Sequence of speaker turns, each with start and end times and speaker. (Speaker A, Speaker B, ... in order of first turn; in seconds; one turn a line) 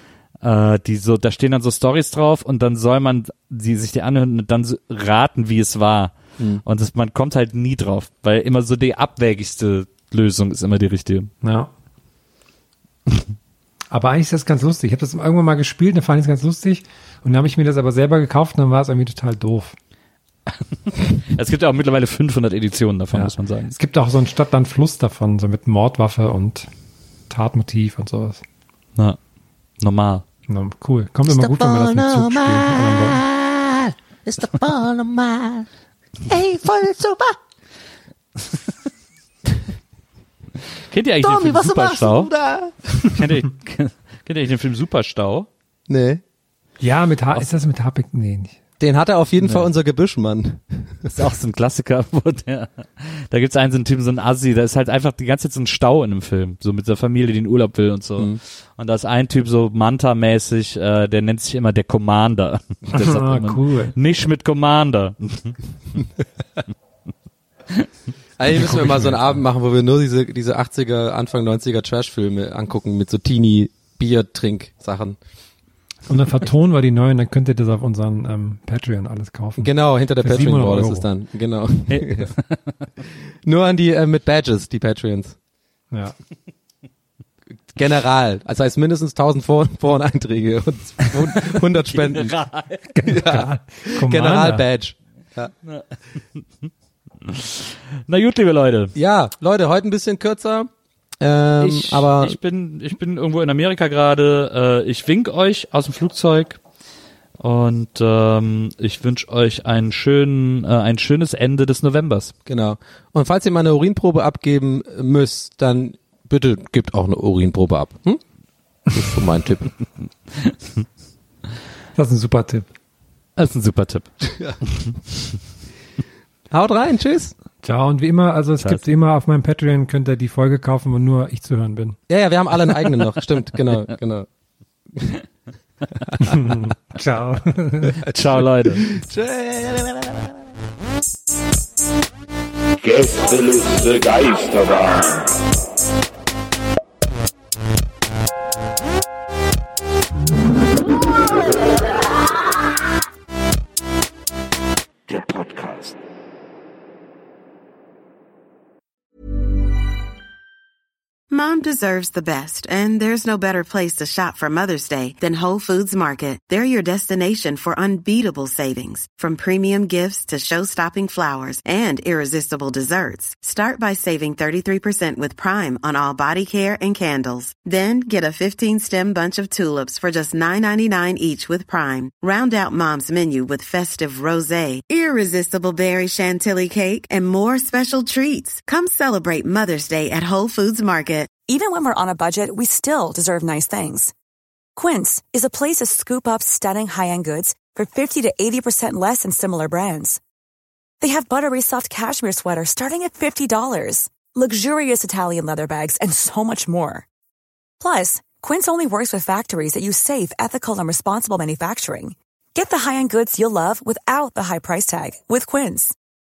Speaker A: 0.4-11.3
Speaker B: 6.4-6.6
Speaker C: 11.4-11.7
Speaker C: 13.9-19.8
Speaker A: 21.1-23.8
Speaker C: 23.1-26.7
Speaker C: 27.3-28.4
Speaker A: 29.8-30.2
Speaker C: 30.5-33.2
Speaker B: 31.3-35.7
Speaker B: 36.3-37.4
Speaker A: 40.9-42.3
Speaker B: 41.2-43.2
Speaker A: 43.1-45.5
Speaker B: 45.9-46.2
Speaker C: 46.8-48.6
Speaker B: 48.8-51.1
Speaker A: 49.4-49.7
Speaker A: 51.1-65.6
Speaker C: 62.9-63.9
Speaker B: 68.4-75.2
Speaker C: 68.5-69.3
Speaker C: 76.1-81.1
Speaker B: 79.6-82.3
Speaker A: 81.9-82.8
Speaker B: 83.5-85.4
Speaker B: 87.7-92.3
Speaker A: 91.5-92.9
Speaker C: 93.0-94.6
Speaker B: 93.1-95.5
Speaker A: 95.7-96.7
Speaker A: 97.2-98.9
Speaker B: 99.0-100.7
Speaker B: 101.2-102.4
Speaker A: 101.6-106.6
Speaker A: 107.4-112.3
Speaker B: 112.5-118.2
Speaker B: 118.9-119.7
Speaker C: 122.0-122.7
Speaker A: 123.4-124.1
Speaker B: 126.5-127.3
Speaker C: 127.6-132.0
Speaker A: 128.6-128.8
Speaker B: 132.1-134.3
Speaker C: 136.2-138.0
Speaker A: 138.0-138.8
Speaker B: 138.8-140.3
Speaker D: 142.8-145.3
Speaker D: 155.1-155.9
Speaker E: 161.3-191.3
Speaker F: 191.5-194.1
Speaker F: 194.8-200.2
Speaker F: 201.0-207.1
Speaker F: 207.8-216.0